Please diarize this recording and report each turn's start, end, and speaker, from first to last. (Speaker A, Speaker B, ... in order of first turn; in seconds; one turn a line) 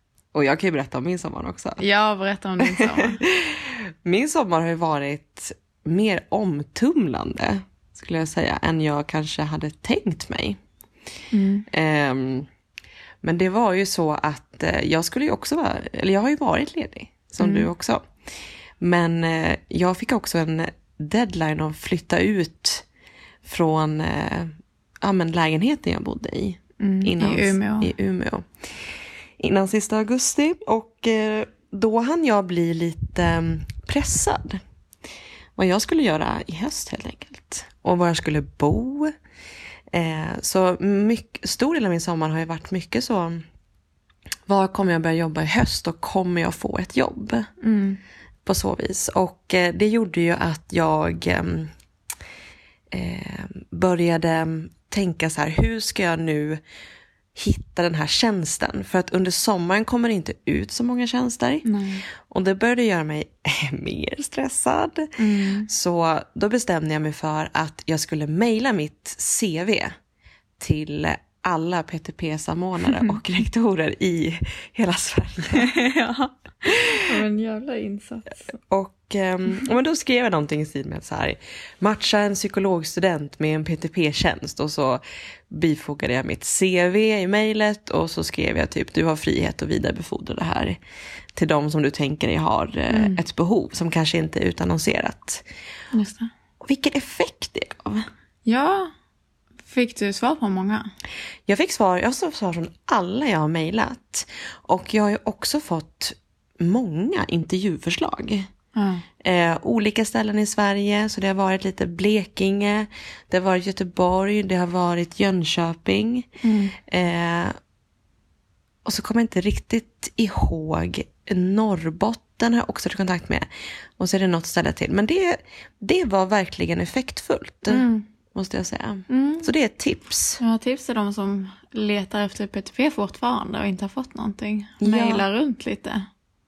Speaker A: 0.3-1.8
Speaker B: 1.8-3.2
Speaker A: 2.6-10.6
Speaker B: 11.3-11.7
Speaker A: 11.7-12.5
Speaker A: 13.2-18.0
Speaker B: 17.4-17.7
Speaker A: 18.8-22.9
Speaker A: 23.4-28.5
Speaker B: 26.8-27.9
Speaker A: 29.4-34.6
Speaker A: 35.6-39.1
Speaker A: 39.9-43.4
Speaker A: 44.5-47.5
Speaker B: 47.6-48.0
Speaker A: 48.5-51.7
Speaker A: 52.9-56.6
Speaker A: 57.4-65.1
Speaker B: 61.6-62.0
Speaker B: 65.2-65.7
Speaker A: 65.7-69.9
Speaker A: 70.6-75.7
Speaker B: 75.5-78.5
Speaker A: 78.7-90.8
Speaker A: 91.3-95.5
Speaker B: 92.9-93.2
Speaker B: 95.9-96.3
Speaker A: 96.6-98.1
Speaker B: 98.5-98.9
Speaker B: 99.7-100.9
Speaker A: 101.5-108.5
Speaker B: 108.8-109.0
Speaker A: 109.2-116.3
Speaker B: 116.4-116.8
Speaker A: 116.9-117.5
Speaker A: 118.8-123.5
Speaker A: 124.0-130.4
Speaker B: 127.7-128.1
Speaker B: 129.1-129.5
Speaker B: 130.4-136.1
Speaker A: 134.8-135.2